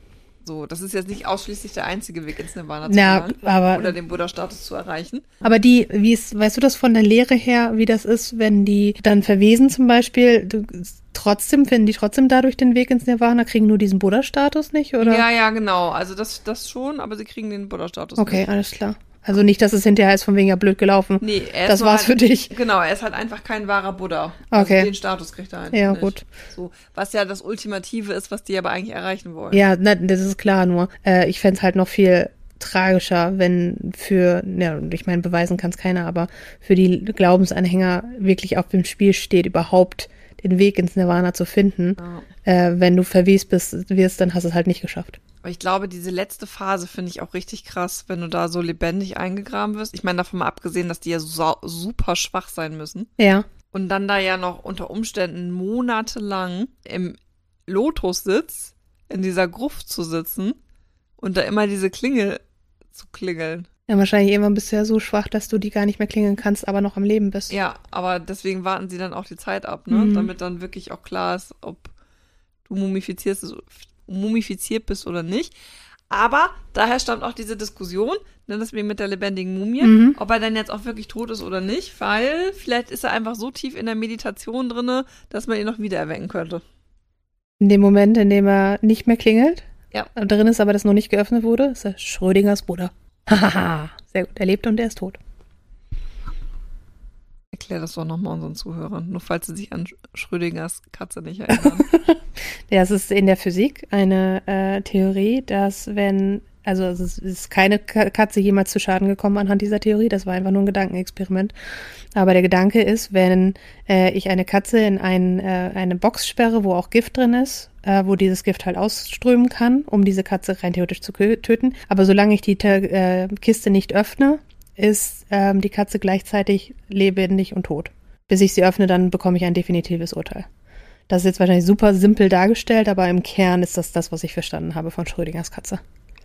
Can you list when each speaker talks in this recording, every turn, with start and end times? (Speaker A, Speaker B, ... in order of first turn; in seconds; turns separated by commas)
Speaker A: 0.5-5.3, Speaker B: 2.9-4.0, Speaker B: 5.4-15.3, Speaker A: 15.0-18.5, Speaker B: 18.2-22.5, Speaker A: 21.2-29.6, Speaker B: 24.5-24.9, Speaker B: 25.7-26.2, Speaker B: 29.5-45.2, Speaker A: 42.0-42.3, Speaker A: 45.4-53.1, Speaker B: 53.2-53.5, Speaker A: 53.7-60.6, Speaker A: 61.2-62.4, Speaker A: 62.9-63.7, Speaker B: 63.9-67.5, Speaker A: 67.5-71.9, Speaker B: 69.9-70.3, Speaker A: 72.7-75.5, Speaker A: 76.1-86.6, Speaker B: 79.8-80.2, Speaker B: 87.6-95.2, Speaker A: 97.5-101.9, Speaker B: 101.5-111.5, Speaker B: 112.1-130.5, Speaker B: 131.1-135.8